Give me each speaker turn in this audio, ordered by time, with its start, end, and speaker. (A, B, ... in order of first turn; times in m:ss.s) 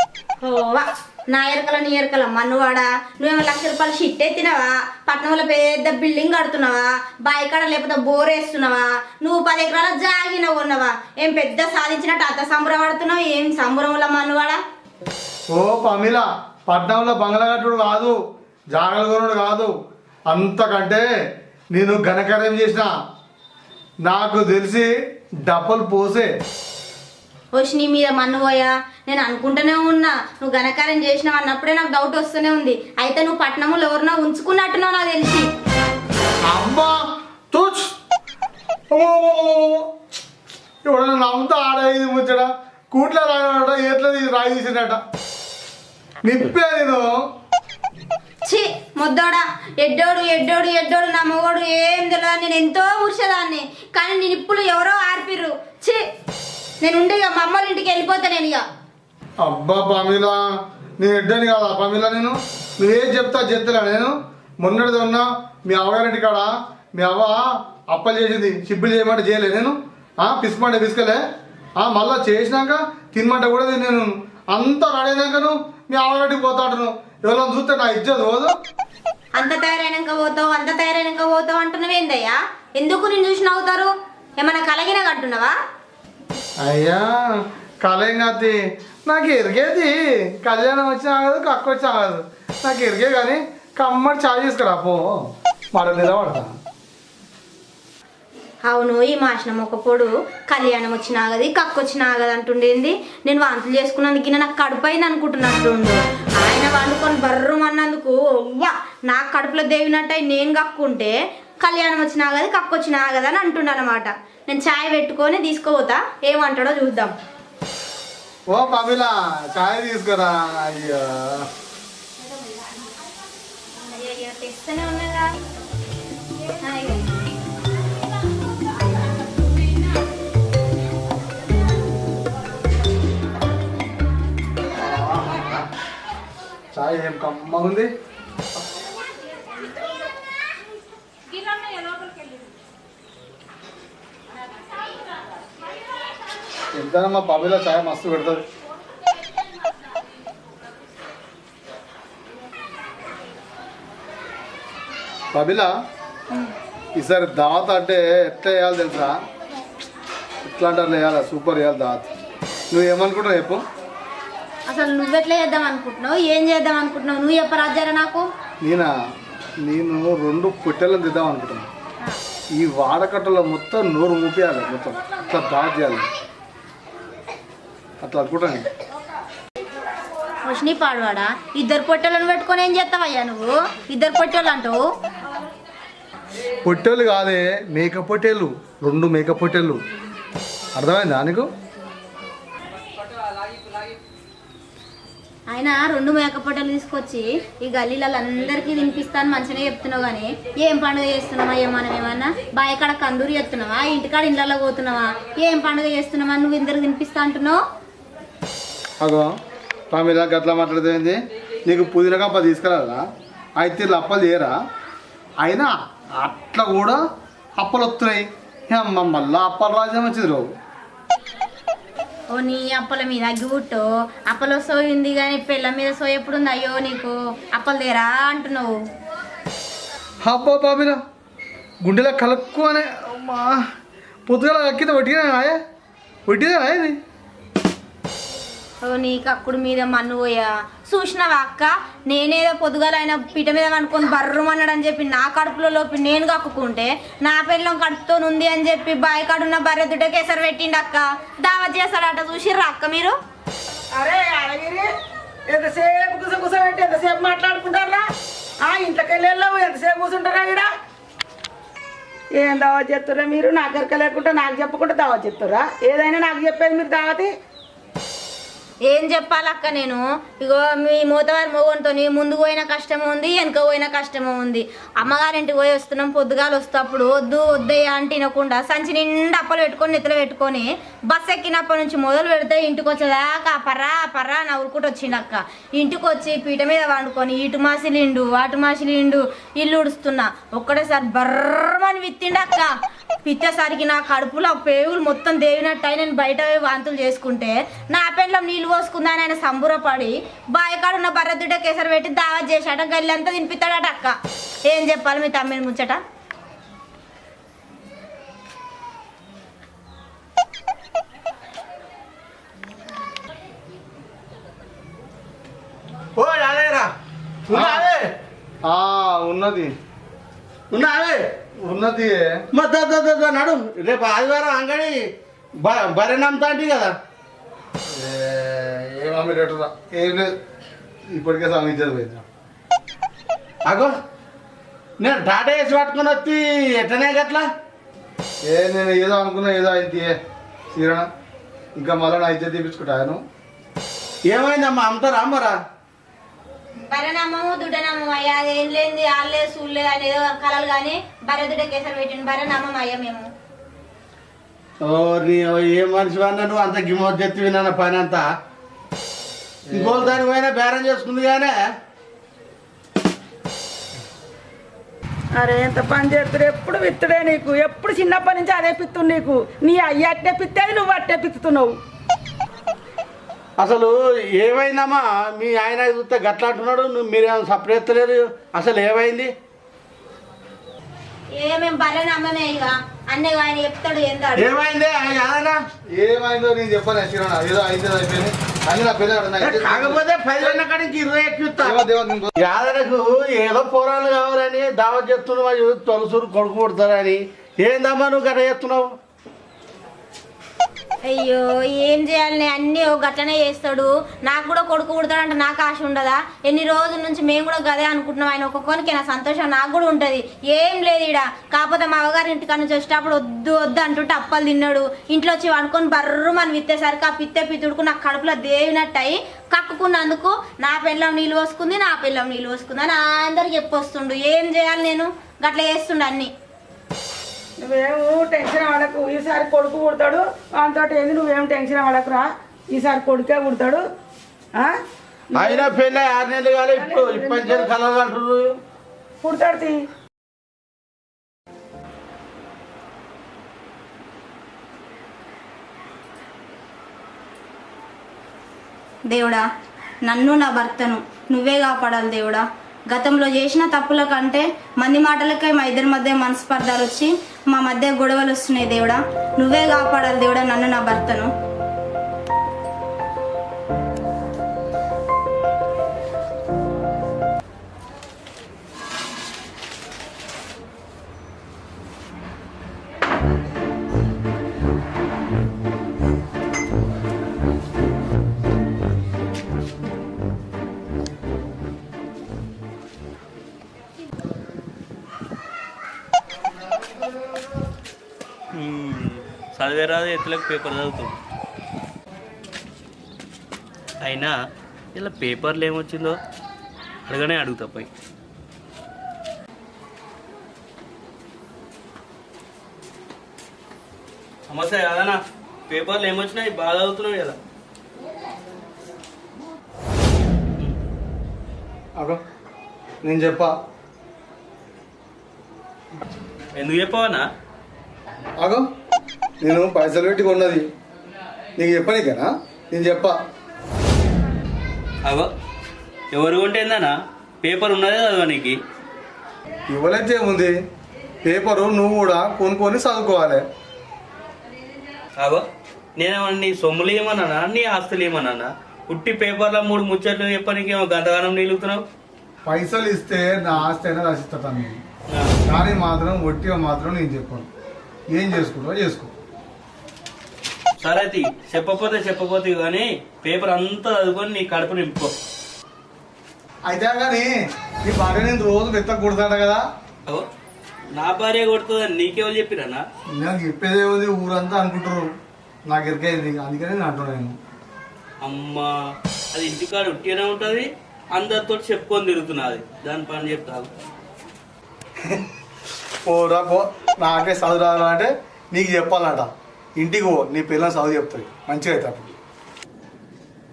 0:00.4-0:14.6 A
0:15.5-0:18.2 B
0:18.7-0:19.7 B
0:20.3-0:21.0 B
0:21.7-0:22.9 B
0:24.0-0:24.9 B
0:25.4-0:26.3 B
0:27.5-0:35.5 A
0:36.5-0:37.9 B
0:38.9-0:39.9 B
0:40.8-0:45.0 B
0:46.2-0:47.1 B
0:48.4-0:56.0 A
0:56.8-0:58.6 A
0:59.4-1:11.2 B
1:11.8-1:18.6 B
1:19.3-1:25.6 A
1:26.6-1:36.6 B
1:38.6-1:57.1 A
1:58.5-2:01.5 B
2:03.9-2:05.3 A
2:06.6-2:07.0 A
2:14.7-2:15.7 B
2:16.7-2:17.9 B
2:21.5-2:21.7 A
2:26.7-2:28.4 B
2:35.3-2:35.7 B
2:37.0-2:39.2 B
2:40.4-2:42.1 B
2:42.7-2:43.6 B
2:44.7-2:48.3 A
2:48.6-2:48.9 B
2:49.6-2:51.7 B
2:52.6-2:56.0 B
2:58.0-2:58.7 B
3:00.4-3:04.8 A
3:06.6-3:09.8 B
3:10.8-3:11.5 B
3:15.5-3:27.6 A
3:29.0-3:29.3 B
3:29.9-3:33.0 B
3:33.6-3:34.6 B
3:35.4-3:37.0 B
3:37.6-3:40.5 B
3:42.3-3:48.8 A
3:50.2-3:51.0 B
3:51.8-3:53.6 B
3:54.3-3:55.6 B
3:56.3-3:57.0 B
3:58.8-4:13.2 A
4:13.9-4:14.9 C
4:15.5-4:18.0 C
4:18.6-4:20.7 C
4:22.3-4:27.3 C
4:28.8-4:52.7 A
4:53.2-5:04.1 A
5:04.6-5:06.0 A
5:16.2-5:16.9 D
5:17.5-5:18.1 D
5:17.5-5:17.9 B
5:18.6-5:19.7 B
5:20.7-5:21.3 D
5:21.6-5:22.4 B
5:22.5-5:26.9 D
5:27.9-5:30.4 B
5:31.1-5:32.2 B
5:33.6-5:33.9 D
5:35.0-5:37.5 D
5:38.4-5:40.2 B
5:40.7-5:41.1 B
5:41.8-5:43.2 B
5:44.3-5:45.6 D
5:46.8-5:53.3 A
5:54.8-5:58.3 D
5:59.7-6:01.8 D
5:59.7-6:00.2 B
6:05.4-6:11.8 C
6:13.6-6:19.3 D
6:21.3-6:24.5 A
6:24.4-6:25.6 D
6:25.9-6:30.0 B
6:29.4-6:31.8 D
6:31.6-6:32.3 B
6:32.4-6:38.9 D
6:41.0-7:06.3 A
7:07.6-7:13.8 C
7:15.3-7:15.7 C
7:15.3-7:18.5 D
7:16.7-7:17.7 C
7:19.2-7:19.8 C
7:29.1-7:29.4 A
7:30.0-7:41.3 A
8:08.5-8:11.2 E
8:14.0-8:14.4 E
8:14.9-8:16.2 E
8:17.1-8:17.9 E
8:24.5-8:27.4 E
8:33.0-8:33.6 B
8:36.6-8:37.2 E
8:38.4-8:38.7 B
8:39.4-8:40.7 B
8:41.6-8:43.2 B
8:46.1-8:48.6 E
8:49.7-8:50.5 B
8:51.2-8:53.4 B
8:55.2-8:55.4 E
8:56.0-9:01.8 E
9:02.4-9:04.8 B
9:05.1-9:05.4 E
9:05.4-9:07.5 B
9:08.1-9:09.1 B
9:10.8-9:15.1 E
9:16.7-9:19.7 B
9:20.9-9:22.8 E
9:23.1-9:25.1 B
9:25.7-9:27.4 B
9:28.2-9:28.7 E
9:29.3-9:33.7 E
9:35.0-9:35.3 B
9:36.0-9:42.1 B